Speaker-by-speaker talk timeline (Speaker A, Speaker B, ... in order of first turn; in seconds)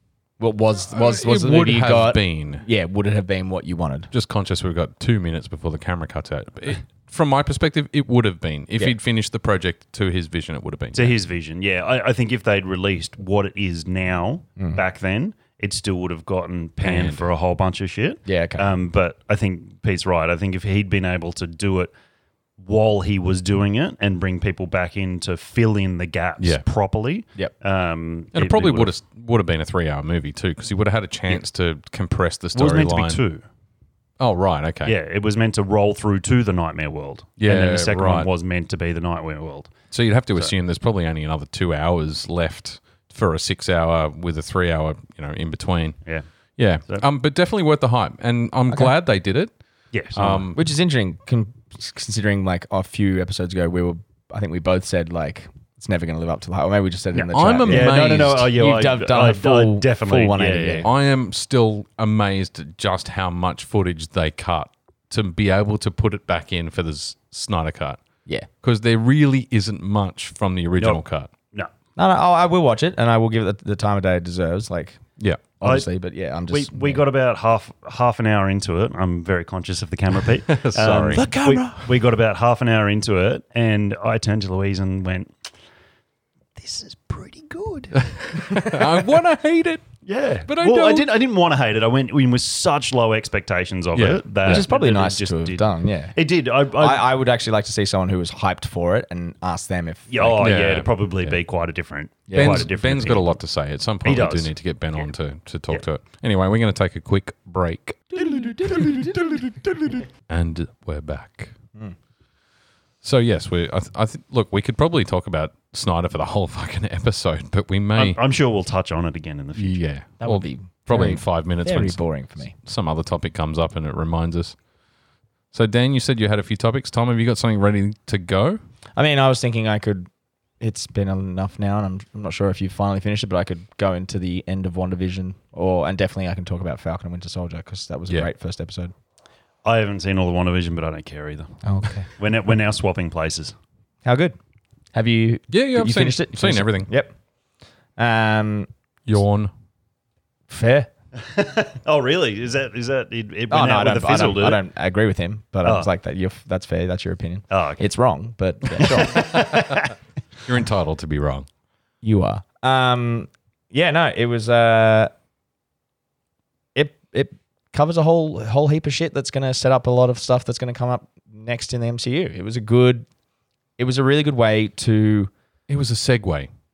Speaker A: 0.4-4.1, 18.2-18.7, 50.5-60.9, 72.0-75.0, 75.6-77.0, 94.4-96.2, 96.7-100.6, 102.3-102.7, 108.4-109.1, 120.2-122.5, 129.0-130.1, 130.6-138.9, 141.6-142.1, 144.0-144.3, 144.9-147.1, 148.0-148.7, 150.5-150.9, 153.5-159.8, 162.0-165.1, 166.7-173.1, 173.8-175.3
Speaker B: 0.9-2.6, 4.1-11.2, 16.8-17.2, 26.4-26.6, 28.3-33.2, 34.2-34.9, 37.4-38.3, 39.9-46.0, 46.6-49.5, 50.1-50.6, 57.3-58.5, 60.8-68.0, 68.6-71.3, 75.2-75.4, 80.5-81.9, 88.0-89.8, 90.5-91.1, 93.9-94.6, 100.4-101.4, 102.3-111.5, 113.0-118.2, 119.5-124.5, 125.5-128.6, 145.5-146.9, 149.1-149.5, 158.8-159.8, 160.4-161.5, 175.7-176.5
Speaker C: 10.9-21.9, 22.6-28.9, 32.5-33.4, 34.8-39.7, 49.9-50.4, 57.1-60.9, 75.6-75.9, 76.5-85.3, 86.6-88.6, 90.0-97.1, 100.1-103.3, 104.0-104.5, 118.0-119.8, 139.6-143.5, 151.2-154.6, 157.5-157.8